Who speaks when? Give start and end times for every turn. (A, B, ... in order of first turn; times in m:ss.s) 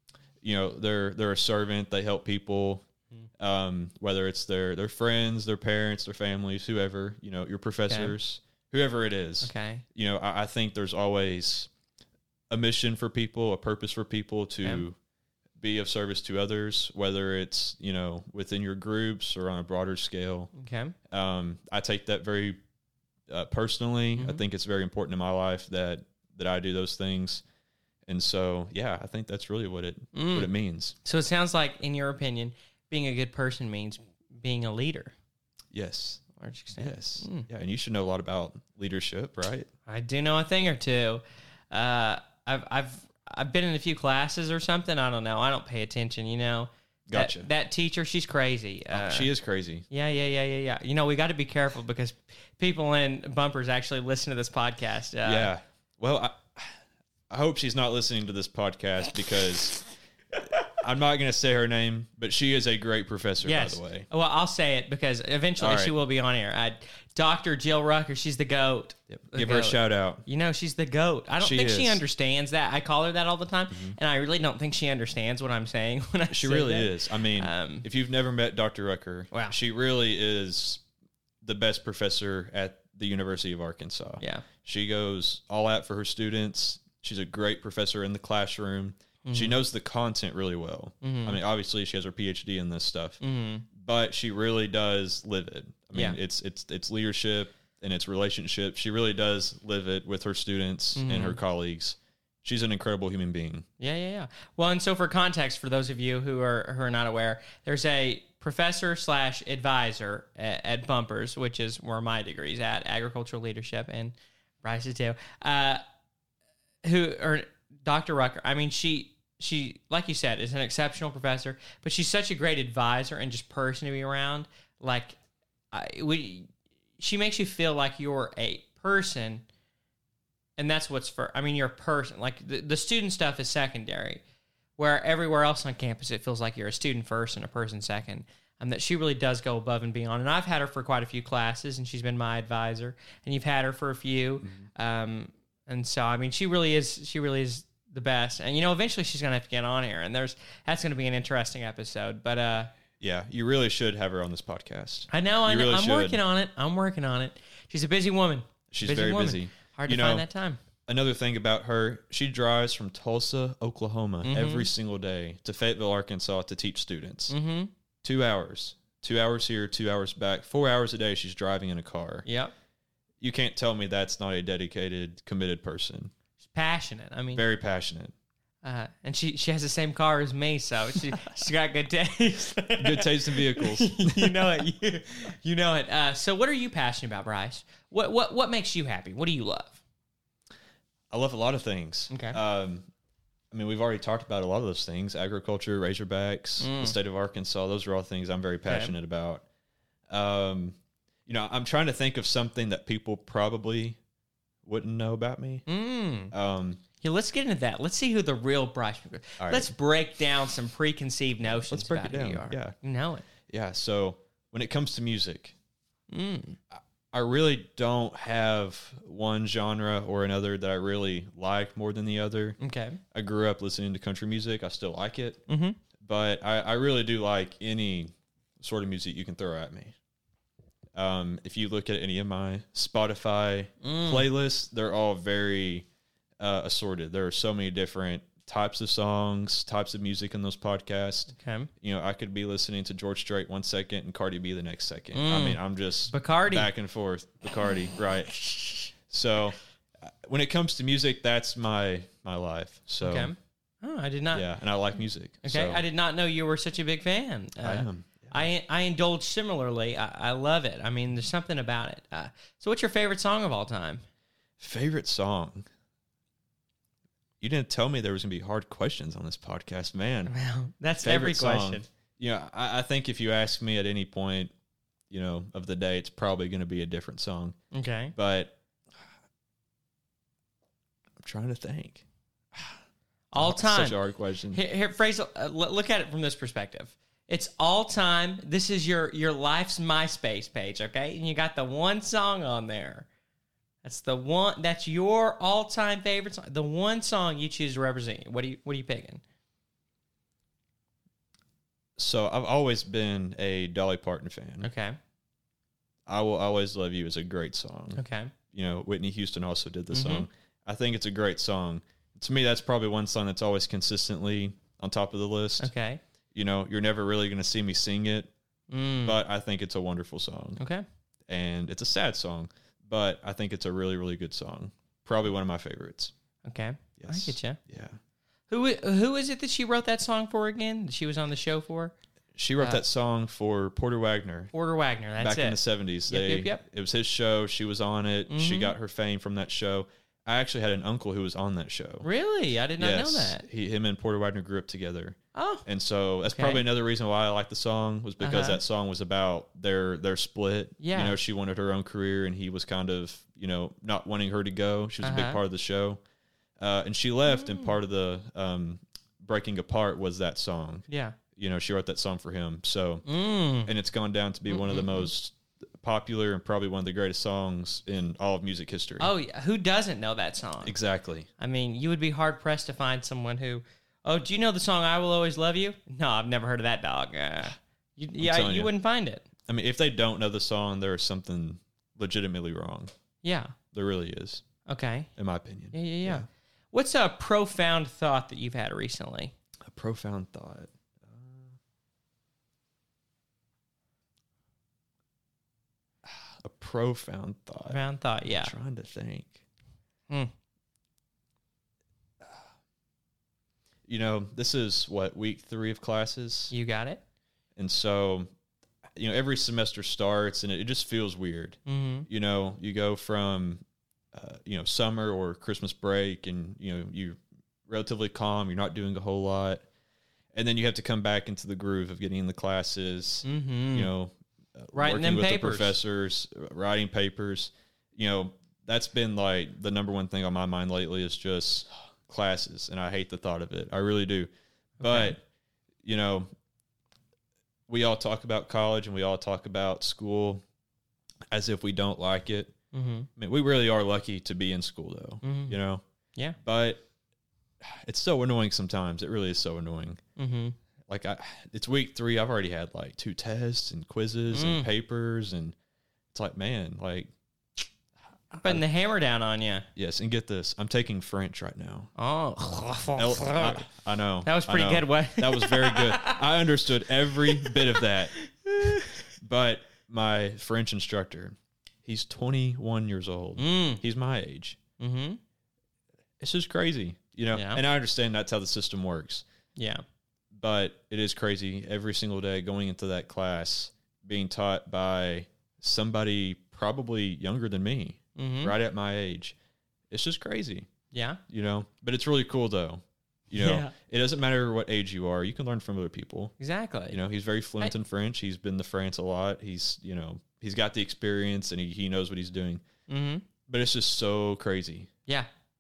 0:00.4-0:02.8 A
0:03.4-0:11.7 A
0:07.9-0:08.2 B
0:09.4-0:09.8 B
0:12.5-0:15.0 A
0:15.6-0:20.5 A
0:20.6-0:20.9 B
0:21.1-0:22.6 A
0:23.3-0:27.4 A
0:24.2-0:24.4 B
0:28.1-0:31.0 A
0:30.1-0:30.5 B
0:31.0-0:35.1 B
0:35.7-0:36.2 A
0:36.4-0:37.5 B
0:36.8-0:39.7 A
0:39.9-0:49.3 B
0:47.1-0:47.5 A
0:48.9-0:49.9 A
0:49.9-0:55.5 B
0:55.2-0:56.8 A
0:57.3-0:59.8 A
1:00.6-1:04.1 A
1:03.4-1:17.9 B
1:05.6-1:05.9 A
1:09.1-1:10.2 A
1:11.4-1:12.0 A
1:13.7-1:14.0 A
1:16.3-1:20.8 A
1:21.4-1:33.2 A
1:24.2-1:24.5 B
1:29.3-1:29.6 B
1:31.0-1:31.4 B
1:33.2-1:33.7 B
1:33.7-1:43.7 A
1:41.0-1:41.4 B
1:43.8-1:55.8 B
1:56.8-2:05.2 B
2:05.7-2:09.4 B
2:10.6-2:14.2 B
2:14.8-2:32.7 B
2:33.0-2:36.2 A
2:35.1-2:40.6 B
2:38.7-2:40.3 A
2:40.9-2:47.4 A
2:44.2-2:44.7 B
2:47.3-2:47.7 B
2:48.0-2:52.3 A
2:52.2-2:52.5 B
2:53.2-2:56.1 A
2:56.4-2:57.4 B
2:57.3-2:58.1 A
2:58.6-3:09.8 B
3:02.8-3:04.5 A
3:11.1-3:12.9 A
3:12.1-3:12.4 B
3:13.5-3:19.4 A
3:16.6-3:17.0 B
3:18.7-3:18.9 B
3:20.1-3:20.8 A
3:21.3-3:24.0 A
3:24.6-3:25.6 A
3:25.7-3:26.3 B
3:26.3-3:26.8 A
3:27.0-3:33.3 B
3:29.4-3:29.7 A
3:31.5-3:32.8 A
3:33.5-3:35.6 A
3:36.1-3:36.6 B
3:36.7-3:42.6 A
3:42.6-3:43.0 B
3:43.1-3:45.4 A
3:45.5-3:45.8 B
3:46.0-3:50.0 A
3:51.0-3:55.9 A
3:53.8-3:54.3 B
3:56.4-4:13.3 A
4:01.4-4:01.7 B
4:05.1-4:06.7 B
4:08.4-4:08.9 B
4:13.0-4:14.5 B
4:14.3-4:15.8 A
4:15.4-4:24.0 B
4:17.6-4:18.5 A
4:24.6-4:25.7 A
4:27.4-4:30.3 A
4:30.3-4:31.9 B
4:31.0-4:34.5 A
4:35.1-4:37.6 A
4:37.7-4:38.1 B
4:38.2-4:38.6 A
4:41.2-4:42.0 A
4:43.3-4:44.0 B
4:43.4-4:44.6 A
4:44.5-4:53.1 B
4:53.8-4:59.2 B
5:02.0-5:04.7 A
5:04.6-5:05.0 B
5:06.1-5:08.0 A
5:08.0-5:08.3 B
5:08.5-5:15.7 A
5:09.9-5:10.3 B
5:15.6-5:16.0 B
5:16.3-5:18.3 A
5:18.7-5:19.2 B
5:19.0-5:20.6 A
5:20.6-5:20.8 B
5:21.3-5:26.1 A
5:26.4-5:27.6 B
5:27.0-5:28.0 A
5:28.5-5:31.9 B
5:32.4-5:34.5 A
5:34.5-5:36.6 B
5:35.2-5:42.1 A
5:38.3-5:38.8 B
5:42.0-5:43.4 B
5:42.8-5:56.0 A
5:45.4-5:45.7 B
5:46.3-5:46.6 B
5:48.2-5:48.6 B
5:50.8-5:51.2 B
5:55.0-5:55.4 B
5:56.6-6:03.0 A
5:57.3-5:57.8 B
6:00.9-6:01.2 B
6:03.1-6:03.7 B
6:03.6-6:09.1 A
6:04.5-6:05.1 B
6:09.0-6:10.8 B
6:10.6-6:11.3 A
6:11.4-6:19.2 B
6:18.2-6:18.7 A
6:19.5-6:22.9 A
6:23.2-6:23.6 B
6:23.7-6:24.4 A
6:24.7-6:25.1 B
6:25.2-6:26.3 A
6:25.7-6:29.3 B
6:29.6-6:31.5 A
6:36.1-6:39.4 A
6:37.7-6:38.5 B
6:43.9-6:46.5 A
6:46.5-6:47.0 B
6:47.6-6:48.3 A
6:49.0-6:53.6 A
6:51.7-6:52.1 B
6:54.1-6:59.6 A
7:00.3-7:15.2 A
7:03.2-7:03.9 B
7:04.7-7:05.8 B
7:14.8-7:15.2 B
7:15.8-7:16.3 A
7:17.7-7:20.4 A
7:21.3-7:22.5 A
7:22.7-7:23.1 B
7:23.2-7:25.8 A
7:25.2-7:25.6 B
7:26.4-7:26.8 A
7:27.6-7:30.0 A
7:30.2-7:30.6 B
7:30.9-7:35.6 A
7:34.3-7:34.7 B
7:36.1-7:37.1 A
7:38.3-7:38.6 A
7:38.4-7:39.7 B
7:39.8-7:41.9 A
7:42.0-7:43.7 B
7:43.0-7:48.2 A
7:44.2-7:46.2 B
7:47.2-7:49.0 B
7:49.2-7:54.6 A
7:53.4-7:53.8 B
7:54.8-7:55.2 B
7:56.2-7:59.2 A
7:57.3-7:57.6 B
7:59.6-7:59.8 B
8:00.3-8:09.4 A
8:08.2-8:08.5 B
8:09.9-8:10.7 A
8:10.9-8:11.2 B
8:11.3-8:16.3 A
8:13.4-8:13.7 B
8:16.4-8:17.0 B
8:16.9-8:22.6 A
8:22.9-8:23.2 B
8:23.5-8:24.9 A